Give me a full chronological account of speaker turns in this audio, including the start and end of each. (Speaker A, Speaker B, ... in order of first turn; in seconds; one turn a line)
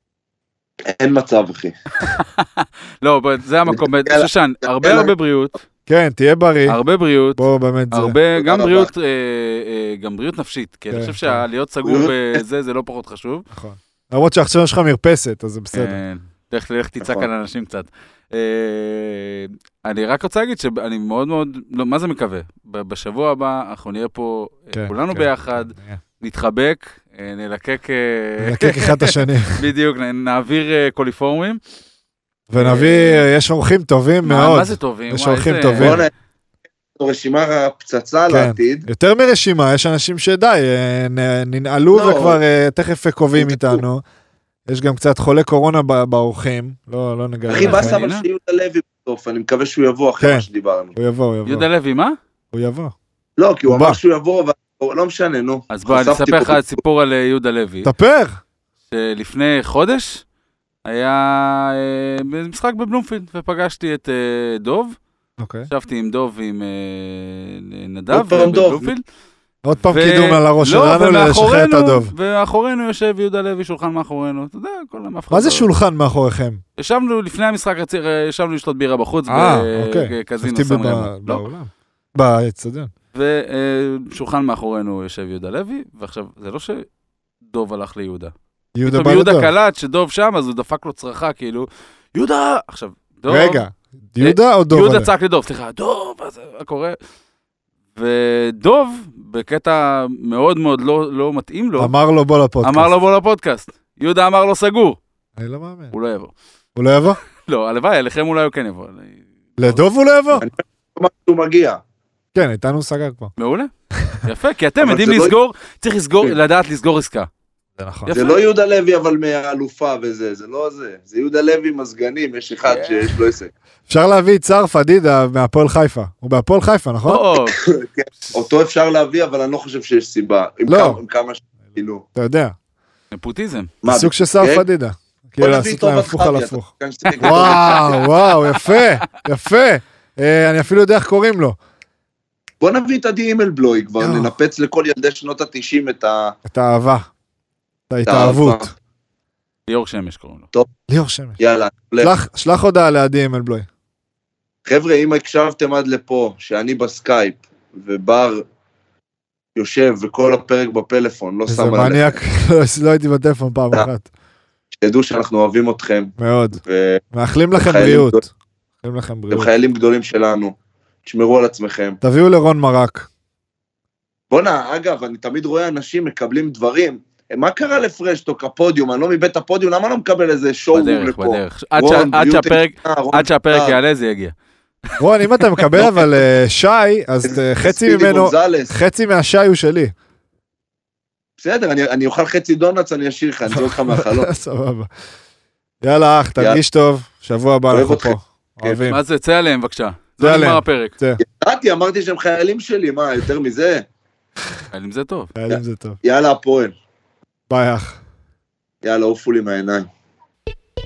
Speaker A: 0.8-1.7
Speaker B: 2.0-5.5
Speaker A: 3.7-5.1
Speaker C: 5.9-6.8
Speaker B: 6.7-13.4
Speaker C: 7.4-8.2
Speaker A: 8.4-8.9
Speaker C: 10.9-11.4
Speaker A: 11.8-12.4
Speaker C: 13.5-16.0
Speaker B: 15.7-31.6
Speaker A: 17.0-17.3
Speaker C: 24.7-26.0
Speaker C: 28.4-29.6
Speaker C: 32.5-36.0
Speaker B: 32.5-33.2
Speaker B: 34.2-36.0
Speaker A: 35.8-36.1
Speaker A: 37.0-38.9
Speaker C: 38.3-44.0
Speaker A: 41.9-42.4
Speaker A: 43.3-43.8
Speaker C: 44.7-48.0
Speaker A: 47.5-51.0
Speaker B: 47.5-48.2
Speaker C: 50.2-51.7
Speaker B: 51.5-52.1
Speaker C: 52.5-52.9
Speaker A: 53.4-56.8
Speaker C: 53.7-54.0
Speaker B: 55.7-57.9
Speaker C: 57.8-58.4
Speaker B: 58.9-60.2
Speaker B: 60.8-64.9
Speaker C: 65.4-65.7
Speaker B: 65.7-69.0
Speaker A: 68.1-68.9
Speaker C: 69.6-72.1
Speaker B: 69.9-75.7
Speaker C: 75.3-76.6
Speaker B: 76.8-81.5
Speaker C: 79.3-82.9
Speaker B: 83.1-86.9
Speaker B: 87.5-88.3
Speaker C: 88.7-89.5
Speaker B: 88.8-93.6
Speaker C: 93.3-95.1
Speaker B: 94.2-97.0
Speaker B: 97.9-101.9
Speaker C: 101.8-102.9
Speaker B: 102.6-105.0
Speaker C: 105.4-105.9
Speaker B: 105.9-106.3
Speaker C: 106.8-107.2
Speaker B: 107.4-109.8
Speaker C: 109.6-110.5
Speaker A: 110.4-111.8
Speaker C: 112.3-113.3
Speaker B: 113.4-113.7
Speaker B: 114.2-117.3
Speaker A: 114.8-115.3
Speaker C: 117.8-118.1
Speaker B: 118.0-118.4
Speaker A: 118.1-123.5
Speaker B: 122.7-123.1
Speaker C: 123.9-127.2
Speaker B: 127.1-127.6
Speaker A: 127.4-132.0
Speaker C: 130.7-131.0
Speaker C: 132.2-132.5
Speaker B: 133.1-133.7
Speaker A: 133.8-134.7
Speaker C: 133.8-136.7
Speaker A: 135.4-138.0
Speaker B: 137.1-138.9
Speaker C: 137.2-141.6
Speaker A: 142.6-146.3
Speaker C: 144.0-144.3
Speaker C: 146.4-147.1
Speaker C: 147.9-148.7
Speaker A: 148.1-148.7
Speaker B: 149.7-150.5
Speaker C: 150.9-151.4
Speaker A: 151.4-152.1
Speaker C: 152.0-153.7
Speaker A: 154.7-158.4
Speaker A: 159.6-162.2
Speaker C: 161.5-164.1
Speaker A: 164.8-167.0
Speaker C: 166.2-166.6
Speaker C: 167.1-168.3
Speaker A: 167.6-168.2
Speaker C: 168.8-169.5
Speaker A: 169.3-172.0
Speaker C: 172.0-173.1
Speaker A: 174.3-183.8
Speaker B: 180.7-184.3
Speaker B: 184.9-186.2
Speaker C: 185.0-189.9
Speaker A: 187.2-188.7
Speaker A: 191.4-194.3
Speaker C: 193.5-194.9
Speaker C: 195.8-199.0
Speaker A: 197.7-198.8
Speaker B: 198.8-200.9
Speaker C: 200.2-201.2
Speaker A: 201.2-203.8
Speaker B: 204.7-205.3
Speaker C: 205.3-206.0
Speaker A: 205.5-206.7
Speaker C: 207.5-208.0
Speaker A: 208.8-209.9